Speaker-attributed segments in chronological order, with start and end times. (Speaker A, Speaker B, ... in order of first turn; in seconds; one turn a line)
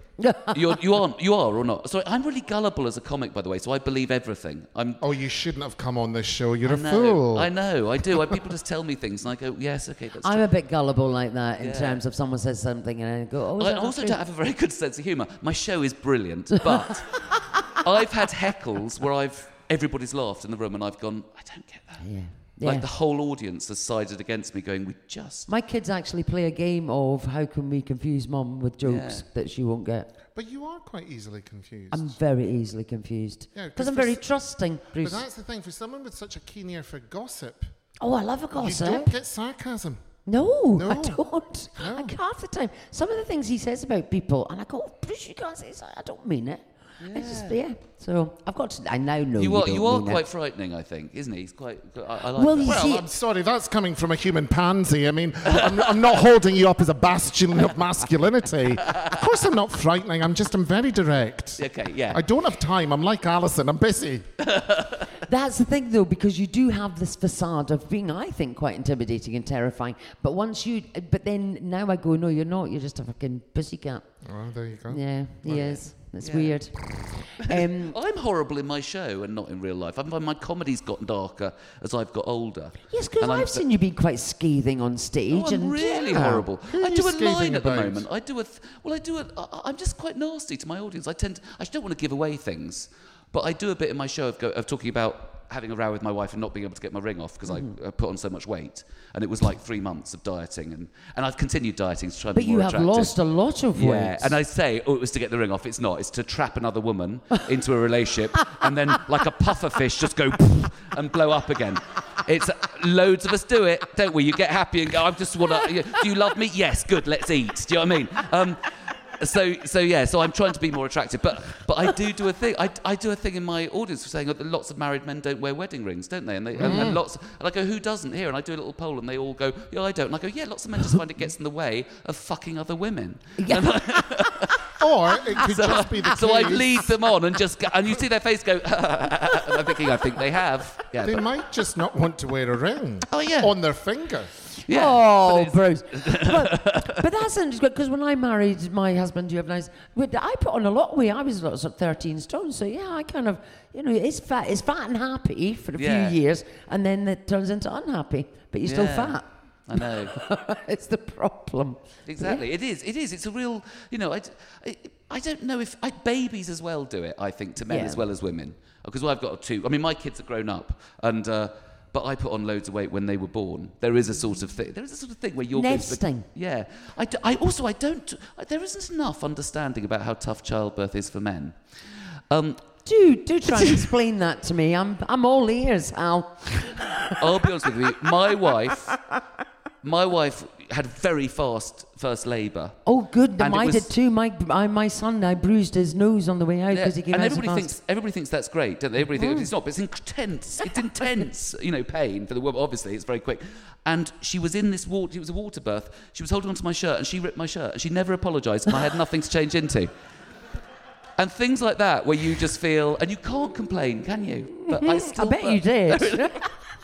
Speaker A: 0.2-0.8
Speaker B: 0.5-5.0
Speaker C: 5.0-7.5
Speaker B: 6.6-10.4
Speaker A: 10.2-14.2
Speaker B: 11.6-12.0
Speaker B: 13.6-22.0
Speaker A: 16.6-17.4
Speaker A: 22.0-22.9
Speaker B: 22.6-25.5
Speaker A: 25.5-30.1
Speaker B: 28.8-29.2
Speaker C: 30.3-32.1
Speaker A: 31.9-35.2
Speaker C: 33.5-34.2
Speaker C: 35.0-37.7
Speaker A: 38.0-39.1
Speaker C: 38.6-40.0
Speaker A: 40.2-50.2
Speaker C: 40.7-41.2
Speaker C: 41.8-42.1
Speaker B: 47.0-47.6
Speaker B: 49.4-53.0
Speaker A: 52.4-53.1
Speaker C: 52.6-64.2
Speaker B: 61.6-62.2
Speaker B: 64.4-65.1
Speaker A: 65.2-74.1
Speaker C: 74.2-75.0
Speaker A: 74.9-78.0
Speaker B: 75.5-76.6
Speaker B: 77.4-83.6
Speaker A: 82.9-86.5
Speaker B: 85.3-103.1
Speaker C: 86.7-88.0
Speaker A: 97.5-97.7
Speaker A: 102.3-104.4
Speaker B: 103.7-134.7
Speaker C: 126.6-127.0
Speaker A: 126.6-127.0
Speaker A: 133.4-134.5
Speaker C: 134.8-136.9
Speaker B: 135.4-141.2
Speaker A: 139.3-139.8
Speaker C: 141.0-144.3
Speaker B: 143.1-143.5
Speaker B: 144.7-147.1
Speaker A: 144.7-162.4
Speaker B: 155.8-156.2
Speaker B: 158.6-160.2
Speaker B: 162.1-181.6
Speaker A: 167.6-168.1
Speaker A: 175.5-176.2
Speaker B: 182.3-182.6
Speaker A: 182.8-187.7
Speaker B: 183.6-183.9
Speaker B: 187.1-188.9
Speaker B: 189.8-192.8
Speaker A: 192.9-197.7
Speaker B: 193.4-193.9
Speaker B: 196.7-209.9
Speaker A: 199.1-199.5
Speaker B: 211.2-216.5
Speaker A: 214.7-216.5